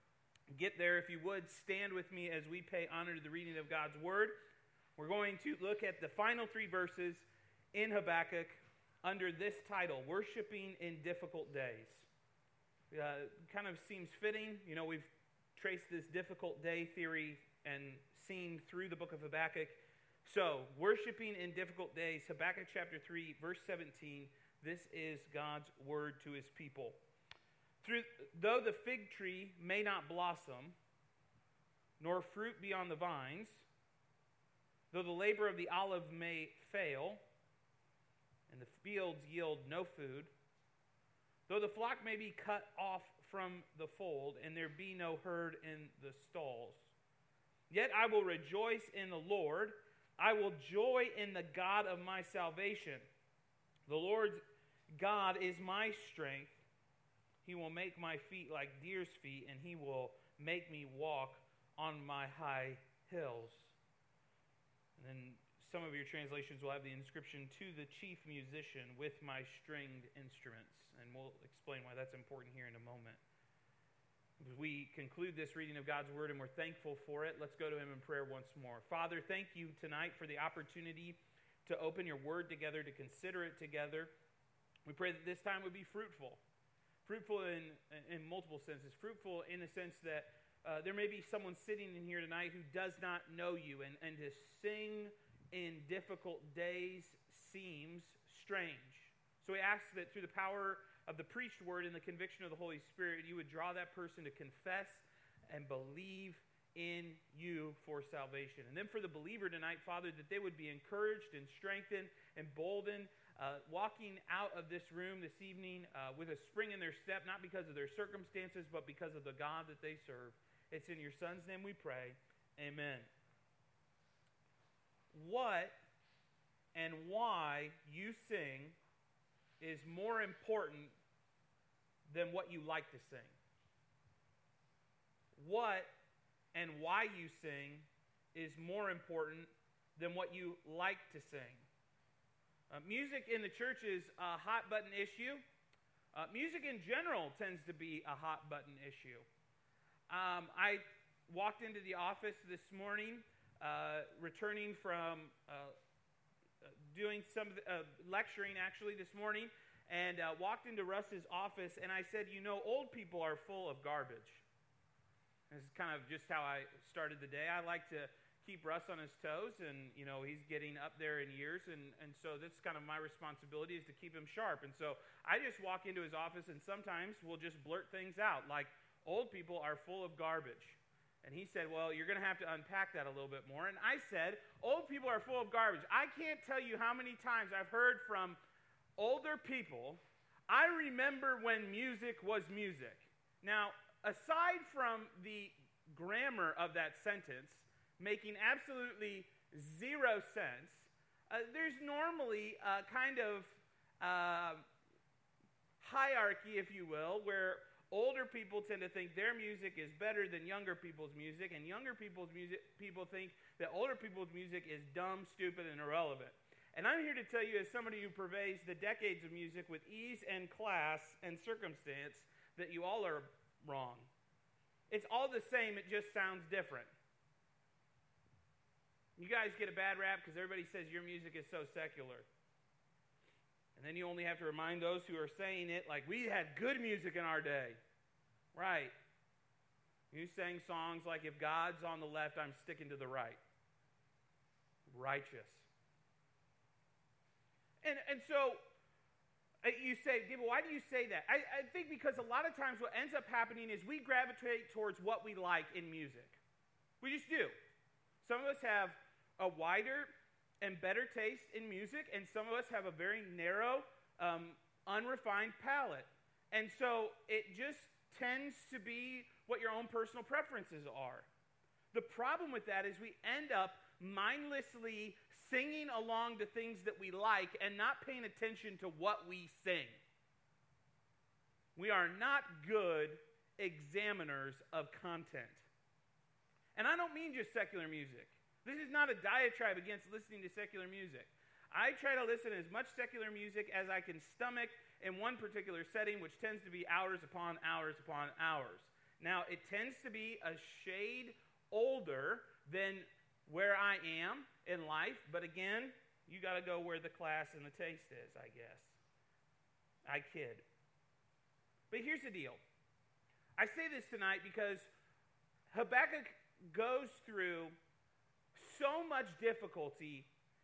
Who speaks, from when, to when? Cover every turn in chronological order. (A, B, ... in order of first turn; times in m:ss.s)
0:00.5-0:04.4 A
0:05.0-0:12.1 A
0:12.9-0:27.0 A
0:27.8-0:30.8 A
0:32.0-0:33.7 A
0:34.9-0:37.2 A
0:38.5-0:40.3 A
0:41.5-0:46.9 A
0:47.7-0:53.1 A
0:53.9-0:54.4 A
0:55.0-0:56.7 A
0:57.4-1:03.8 A
1:05.0-1:13.2 A
1:14.4-1:24.1 A
1:24.9-1:26.4 A
1:27.0-2:03.1 A
2:05.1-2:05.8 A
2:06.7-2:08.8 A
2:09.6-2:10.9 A
2:12.1-2:13.4 A
2:15.4-2:15.9 A
2:16.5-2:21.7 A
2:22.7-2:25.4 A
2:26.1-2:29.3 A
2:30.1-2:35.8 A
2:36.6-2:44.4 A
2:45.5-3:08.4 A
3:09.0-3:24.6 A
3:25.8-3:44.1 A
3:44.9-3:46.9 A
3:49.2-3:52.3 A
3:53.8-3:57.8 A
3:58.5-3:58.9 A
4:00.1-4:03.4 A
4:04.9-4:05.7 A
4:07.8-4:08.6 A
4:09.6-4:16.4 A
4:17.0-4:17.6 A
4:18.2-4:31.3 A
4:31.9-4:40.0 A
4:41.8-4:45.7 A
4:46.8-5:09.0 A
5:10.1-5:10.6 A
5:11.9-5:12.6 A
5:13.6-5:14.9 A
5:15.7-5:17.8 A
5:18.6-5:20.3 A